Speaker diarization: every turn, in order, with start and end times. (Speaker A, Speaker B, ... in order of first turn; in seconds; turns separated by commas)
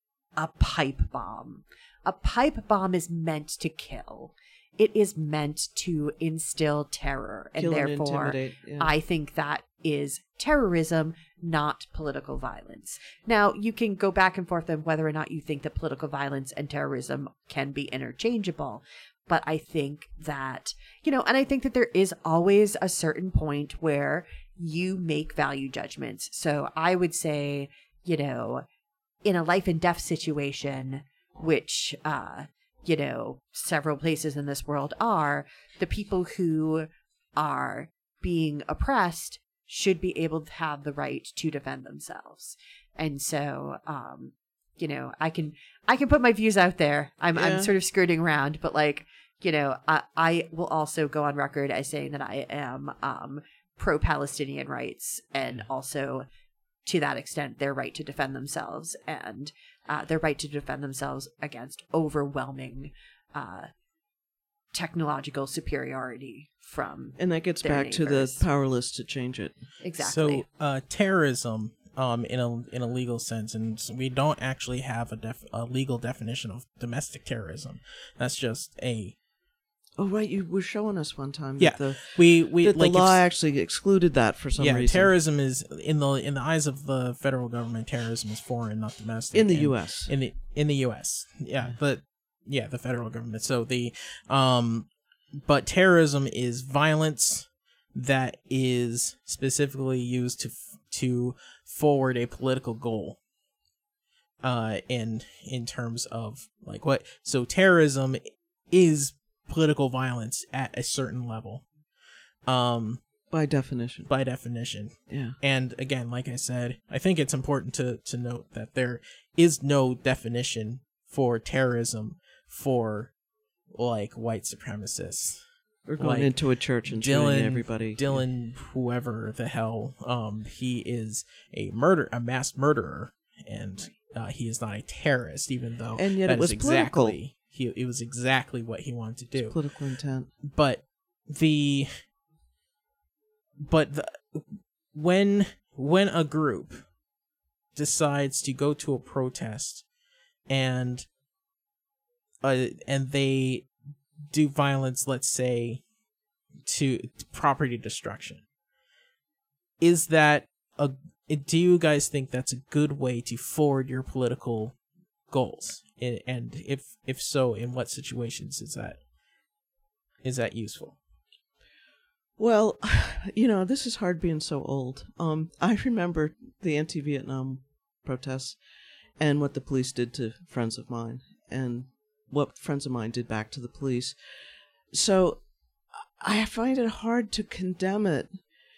Speaker A: 0.4-28.6, Speaker B: 7.6-8.9, Speaker A: 29.2-56.3, Speaker B: 47.3-47.7, Speaker A: 56.9-63.7, Speaker A: 64.7-68.5, Speaker B: 67.2-69.6, Speaker A: 69.8-70.4, Speaker C: 70.0-79.1, Speaker B: 80.0-85.1, Speaker C: 81.6-83.2, Speaker C: 84.6-94.9, Speaker B: 89.3-90.1, Speaker C: 95.4-103.2, Speaker C: 104.4-111.7, Speaker C: 112.5-113.0, Speaker B: 113.3-114.1, Speaker C: 114.1-123.1, Speaker B: 115.1-115.3, Speaker C: 123.7-125.4, Speaker B: 125.9-128.2, Speaker C: 126.0-139.6, Speaker B: 135.9-137.2, Speaker B: 139.4-140.3, Speaker C: 140.4-142.0, Speaker C: 143.6-146.9, Speaker C: 147.7-149.8, Speaker C: 150.5-151.1, Speaker C: 152.4-153.7, Speaker C: 154.3-155.8, Speaker C: 156.6-158.4, Speaker C: 159.8-164.8, Speaker C: 165.3-169.0, Speaker C: 170.2-171.0, Speaker B: 172.4-178.6, Speaker B: 179.2-184.2, Speaker B: 184.9-188.3